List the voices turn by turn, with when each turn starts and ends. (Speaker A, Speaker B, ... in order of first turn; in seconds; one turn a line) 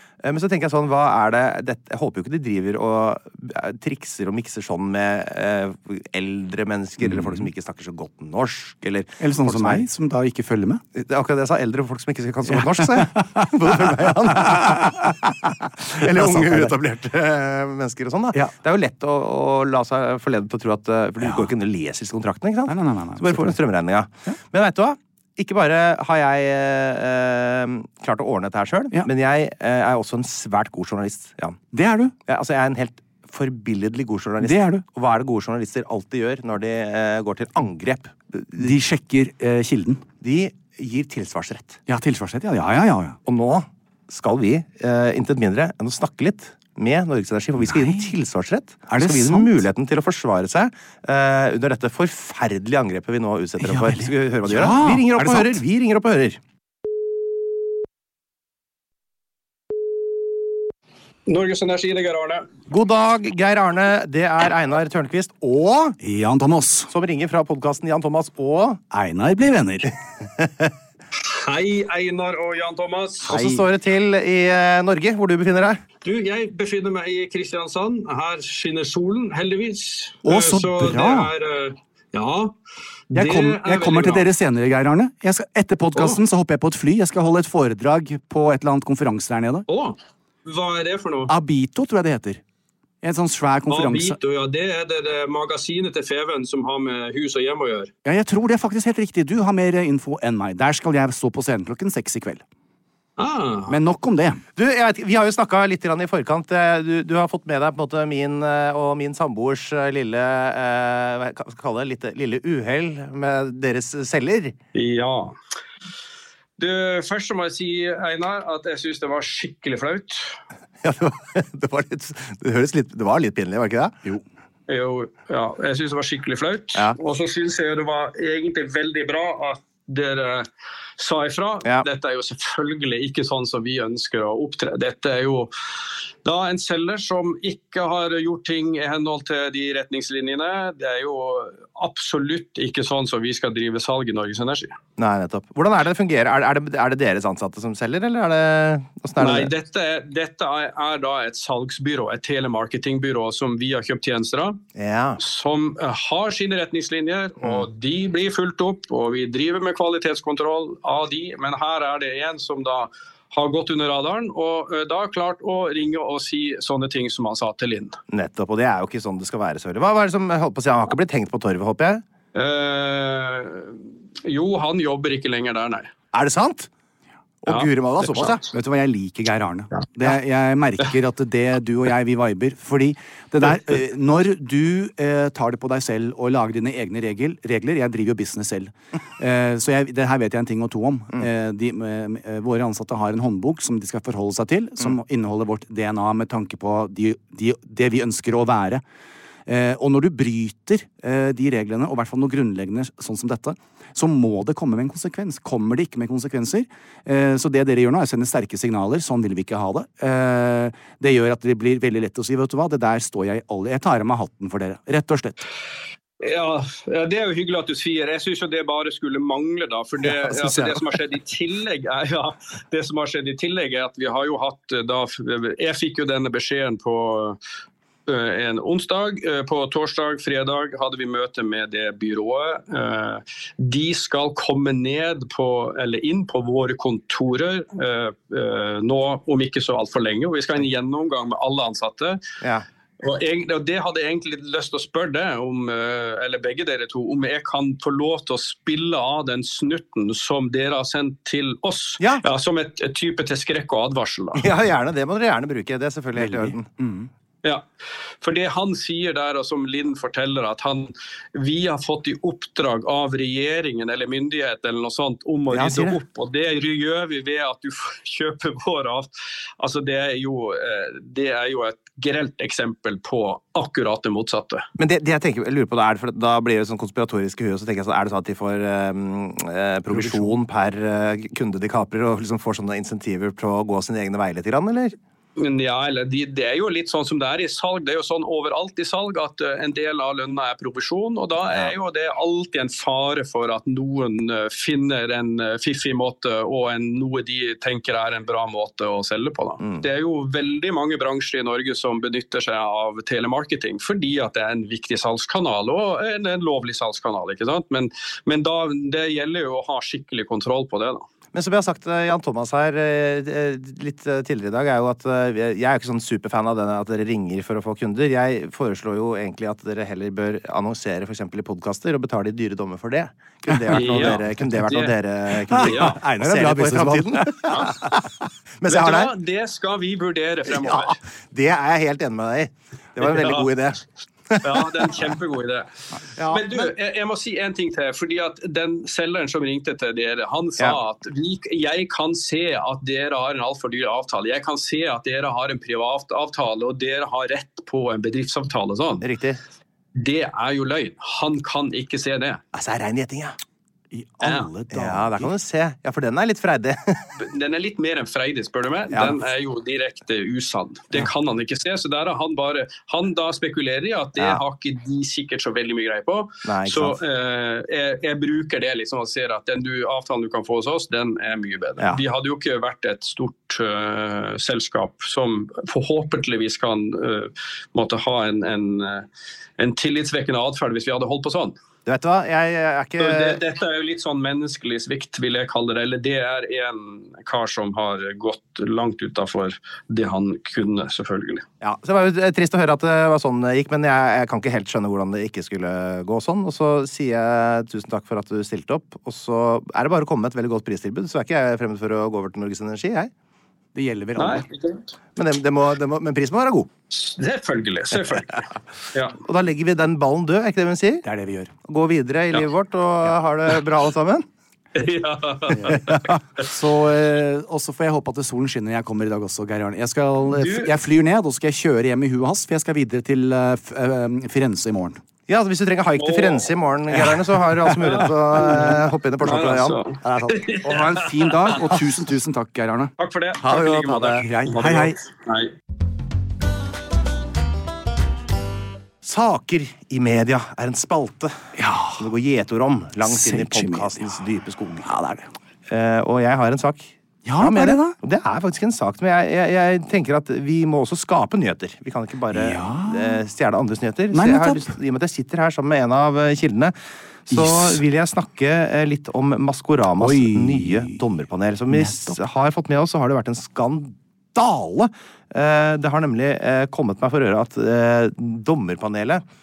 Speaker A: 0.2-9.9
Speaker B: 7.0-7.4
Speaker B: 9.2-10.8
Speaker A: 10.9-31.6
Speaker B: 12.5-15.3
Speaker B: 15.9-16.7
Speaker B: 21.2-21.5
Speaker B: 22.7-23.6
Speaker B: 31.7-32.1
Speaker A: 32.2-38.7
Speaker B: 34.4-34.8
Speaker B: 38.5-40.0
Speaker A: 40.2-41.8
Speaker B: 41.9-43.2
Speaker A: 43.2-56.4
Speaker B: 47.6-48.1
Speaker B: 48.9-49.6
Speaker B: 53.6-55.6
Speaker C: 61.3-62.5
Speaker A: 62.7-66.0
Speaker B: 66.0-66.9
Speaker A: 66.9-68.8
Speaker B: 68.9-69.9
Speaker C: 71.2-73.3
Speaker A: 73.2-75.8
Speaker B: 73.3-73.6
Speaker C: 76.0-82.5
Speaker B: 80.2-81.3
Speaker C: 83.1-84.3
Speaker B: 83.1-89.7
Speaker C: 85.9-86.2
Speaker C: 89.7-91.3
Speaker B: 91.3-92.4
Speaker B: 93.0-94.2
Speaker C: 93.7-97.9
Speaker B: 98.0-102.4
Speaker C: 103.2-103.7
Speaker B: 103.7-104.4
Speaker A: 104.5-114.5
Speaker C: 114.7-115.3
Speaker C: 116.6-120.4
Speaker A: 120.8-124.0
Speaker C: 124.7-135.5
Speaker C: 136.2-144.7
Speaker A: 145.0-149.5
Speaker C: 149.2-154.6
Speaker A: 154.7-155.2
Speaker C: 155.2-168.0
Speaker A: 157.4-157.7
Speaker A: 168.1-172.0
Speaker C: 172.3-175.9
Speaker A: 176.1-176.7
Speaker A: 177.4-178.4
Speaker C: 177.5-178.4
Speaker B: 178.5-198.8
Speaker B: 199.5-215.5
Speaker C: 216.2-227.4
Speaker A: 220.1-221.0
Speaker C: 228.1-242.2
Speaker C: 243.0-254.4
Speaker A: 252.0-252.2
Speaker A: 254.3-256.7
Speaker B: 256.1-257.1
Speaker C: 258.2-274.6
Speaker A: 265.5-266.0
Speaker A: 274.8-284.9
Speaker B: 279.9-280.3
Speaker C: 285.4-311.1
Speaker A: 291.5-291.8
Speaker A: 299.6-299.9
Speaker A: 311.3-328.1
Speaker B: 323.5-324.4
Speaker C: 323.7-324.9
Speaker B: 325.5-327.5
Speaker C: 325.6-325.9
Speaker C: 327.5-327.7
Speaker A: 328.6-329.1
Speaker C: 328.7-330.9
Speaker A: 330.4-335.1
Speaker C: 333.0-333.5
Speaker C: 334.4-349.1
Speaker A: 336.1-336.7
Speaker A: 349.0-349.4
Speaker C: 350.0-352.4
Speaker A: 352.5-353.4
Speaker B: 353.9-355.3
Speaker A: 354.7-357.1
Speaker C: 357.2-379.1
Speaker A: 358.9-359.2
Speaker A: 364.2-364.4
Speaker A: 366.4-367.0
Speaker A: 371.8-372.0
Speaker C: 379.6-381.6
Speaker A: 381.9-383.4
Speaker C: 383.0-391.4
Speaker A: 391.6-403.1
Speaker B: 403.7-404.5
Speaker C: 404.2-404.9
Speaker A: 405.1-406.7
Speaker C: 406.9-409.2
Speaker A: 409.2-411.0
Speaker B: 411.0-411.5
Speaker A: 411.6-414.2
Speaker C: 414.7-416.1
Speaker B: 415.5-425.0
Speaker A: 415.7-416.0
Speaker C: 420.3-420.7
Speaker A: 425.3-429.8
Speaker C: 426.0-426.5
Speaker C: 427.8-431.3
Speaker B: 430.0-432.9
Speaker C: 433.0-435.5
Speaker A: 433.4-434.2
Speaker B: 434.2-435.0
Speaker A: 439.0-441.4
Speaker B: 441.6-442.1
Speaker A: 442.0-444.9
Speaker B: 443.0-444.2
Speaker B: 444.8-445.3
Speaker A: 445.7-456.7
Speaker B: 447.2-448.0
Speaker B: 452.3-453.2
Speaker B: 454.1-454.8
Speaker A: 457.2-469.2
Speaker B: 457.3-457.8
Speaker B: 460.0-461.0
Speaker B: 461.7-462.2